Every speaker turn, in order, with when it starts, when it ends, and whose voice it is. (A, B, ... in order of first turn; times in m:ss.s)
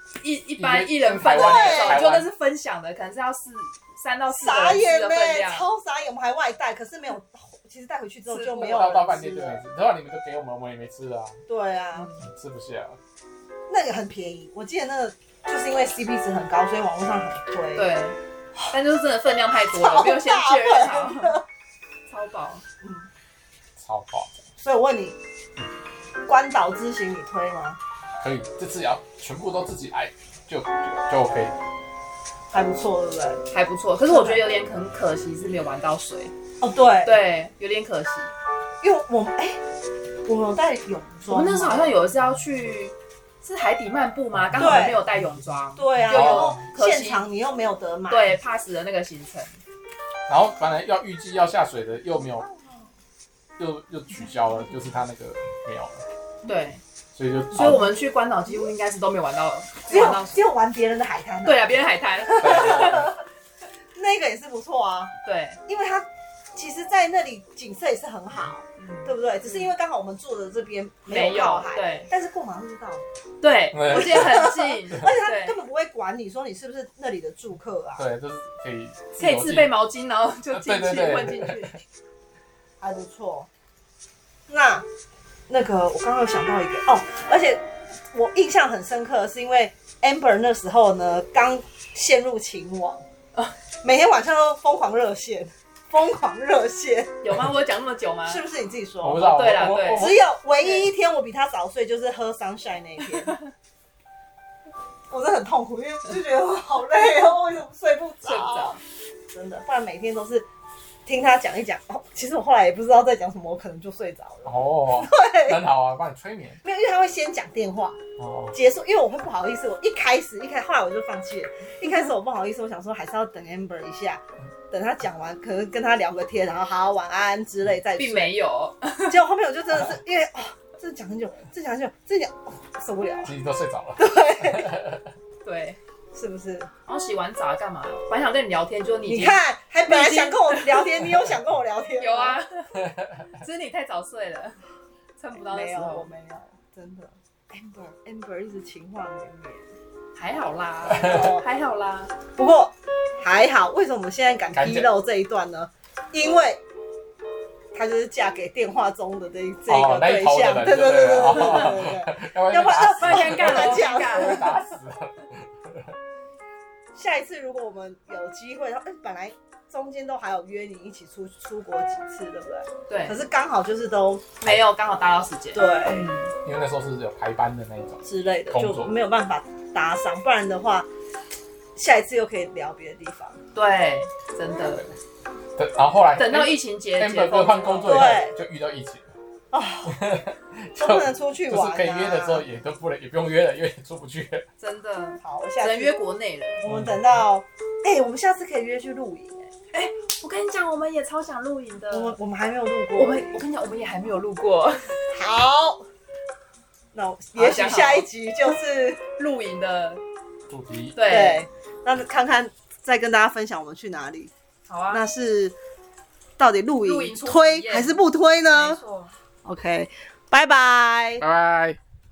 0:00.2-0:05.7 A
0:00.6-0:02.3 B
0:01.3-0:02.0 C
0:04.3-0:09.6 C
0:08.3-0:08.9 A
0:08.6-0:11.4 B
0:11.5-0:12.2 C
0:12.2-0:13.0 B
0:13.7-0:17.9 C
0:17.8-0:18.2 A
0:18.7-0:21.4 A
0:19.7-0:21.4 C
0:22.1-0:22.6 A
0:22.8-0:23.1 C
0:23.8-0:24.4 B
0:24.6-0:25.2 C
0:26.3-0:27.8 C
0:28.2-0:31.6 B
0:32.5-0:33.4 C
0:33.5-0:36.3 A
0:34.1-0:34.5 C
0:36.6-0:37.2 C
0:37.0-0:38.3 A
0:38.8-0:39.6 C
0:40.3-0:42.0 C
0:41.3-0:47.2 A
0:44.6-0:45.0 C
0:45.8-0:48.4 C
0:46.1-0:46.6 B
0:48.1-0:49.6 A
0:50.3-0:52.5 B
0:53.6-0:56.0 B
0:56.5-0:56.8 A
0:57.2-0:57.9 B
0:57.5-1:00.4 A
0:59.9-1:03.2 C
1:01.4-1:03.1 A
1:02.4-1:03.1 B
1:04.0-1:05.1 C
1:05.2-1:05.6 A
1:05.7-1:13.1 C
1:08.8-1:09.7 A
1:11.1-1:12.1 A
1:13.4-1:15.6 A
1:13.7-1:14.5 B
1:13.9-1:18.1 C
1:18.0-1:19.8 B
1:19.2-1:21.8 A
1:20.5-1:21.8 B
1:22.8-1:23.5 C
1:24.5-1:24.8 C
1:25.5-1:33.0 C
1:33.8-1:37.2 C
1:37.2-1:38.4 A
1:38.3-1:43.4 C
1:39.0-1:40.2 B
1:39.2-1:40.9 A
1:45.1-1:48.8 C
1:48.2-1:48.8 A
1:49.3-1:50.5 C
1:51.1-1:55.6 C
1:54.4-1:56.6 B
1:56.6-1:58.0 C
1:58.2-1:58.6 B
1:58.5-2:08.4 C
2:08.0-2:09.2 A
2:09.1-2:13.3 C
2:13.2-2:15.0 B
2:14.0-2:14.8 C
2:15.4-2:15.8 A
2:16.1-2:16.7 C
2:16.9-2:21.0 A
2:19.1-2:22.4 C
2:22.0-2:22.8 A
2:22.8-2:23.2 B
2:23.3-2:24.6 A
2:25.2-2:26.1 A
2:25.4-2:29.7 C
2:30.2-2:32.2 A
2:30.9-2:31.3 B
2:30.9-2:31.4 C
2:32.4-2:36.6 C
2:34.5-2:34.9 B
2:37.7-2:44.6 C
2:39.7-2:46.0 B
2:41.3-2:41.7 A
2:42.6-2:44.6 A
2:47.0-2:54.3 C
2:52.9-2:53.2 A
2:54.4-2:56.3 A
2:55.5-2:56.1 C
2:56.4-2:58.9 B
2:58.0-3:00.9 C
3:01.8-3:03.4 C
3:03.5-3:04.9 A
3:05.6-3:09.2 B
3:06.2-3:08.2 A
3:07.9-3:08.4 C
3:09.5-3:10.1 C
3:09.9-3:14.5 B
3:10.8-3:12.4 C
3:14.6-3:16.6 A
3:15.2-3:16.0 C
3:16.6-3:19.5 C
3:16.7-3:17.1 B
3:19.7-3:22.2 A
3:21.9-3:23.3 C
3:23.0-3:25.0 A
3:25.1-3:25.9 C
3:26.9-3:29.0 C
3:27.4-3:28.1 A
3:29.2-3:30.0 A
3:30.5-3:31.0 B
3:31.0-3:31.4 A
3:31.0-3:34.3 C
3:34.7-3:35.0 A
3:34.9-3:35.6 C
3:36.4-3:38.8 C
3:36.8-3:38.0 A
3:38.5-3:39.1 A
3:39.4-3:41.2 C
3:41.2-3:41.8 B